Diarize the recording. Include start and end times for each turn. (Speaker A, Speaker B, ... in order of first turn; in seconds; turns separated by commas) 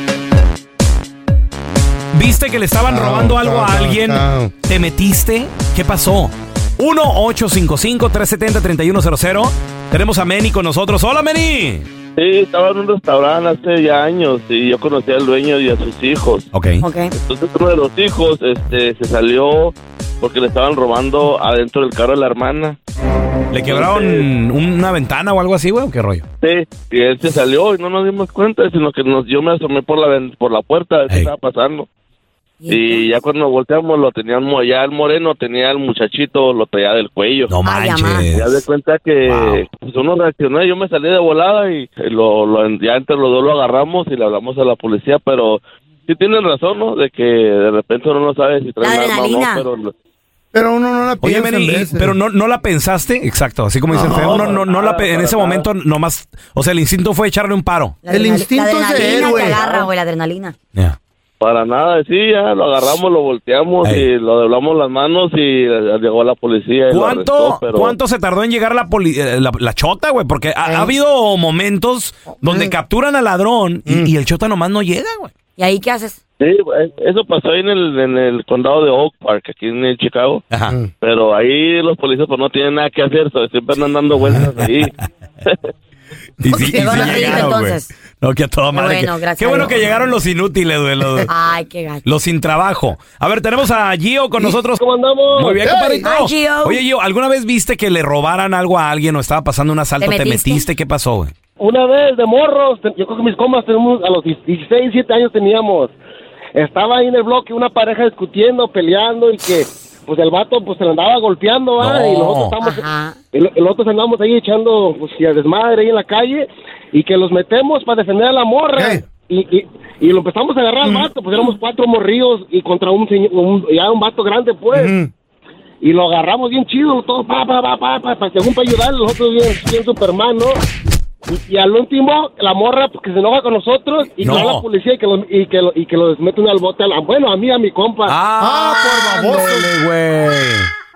Speaker A: 2.1-11.9, Speaker B: 2.9-4.5, Speaker C: 12.2-16.5, Speaker A: 16.5-16.8, Speaker D: 16.8-17.1, Speaker C: 17.2-22.8, Speaker A: 23.5-26.3, Speaker C: 23.6-24.3, Speaker C: 26.4-31.9, Speaker D: 32.6-33.1, Speaker C: 32.7-37.5, Speaker A: 37.5-38.5, Speaker D: 37.6-38.3, Speaker C: 38.3-49.9, Speaker A: 39.3-39.6, Speaker D: 48.8-49.7, Speaker B: 50.5-52.1, Speaker A: 51.2-58.0, Speaker B: 53.9-54.5, Speaker C: 54.1-55.7, Speaker D: 58.0-60.5, Speaker B: 58.1-59.6, Speaker C: 59.0-59.9, Speaker C: 61.4-68.0, Speaker A: 66.9-75.3, Speaker B: 70.6-70.9, Speaker B: 72.4-72.7, Speaker D: 75.6-76.2, Speaker C: 76.4-80.4, Speaker A: 80.5-80.8, Speaker C: 81.0-84.9, Speaker A: 86.4-91.3, Speaker B: 86.5-87.5, Speaker D: 86.6-87.9, Speaker D: 88.7-90.0, Speaker D: 91.3-92.0, Speaker A: 92.0-101.3, Speaker E: 94.8-95.6, Speaker B: 95.6-96.1, Speaker D: 96.0-96.8, Speaker D: 100.0-100.7, Speaker E: 101.6-106.0, Speaker E: 106.5-125.0, Speaker A: 111.8-112.6, Speaker D: 112.6-113.2, Speaker B: 118.8-119.0, Speaker B: 124.7-125.1, Speaker E: 125.8-130.6, Speaker E: 131.3-138.2, Speaker A: 134.2-134.7, Speaker A: 138.1-140.7, Speaker B: 138.4-139.7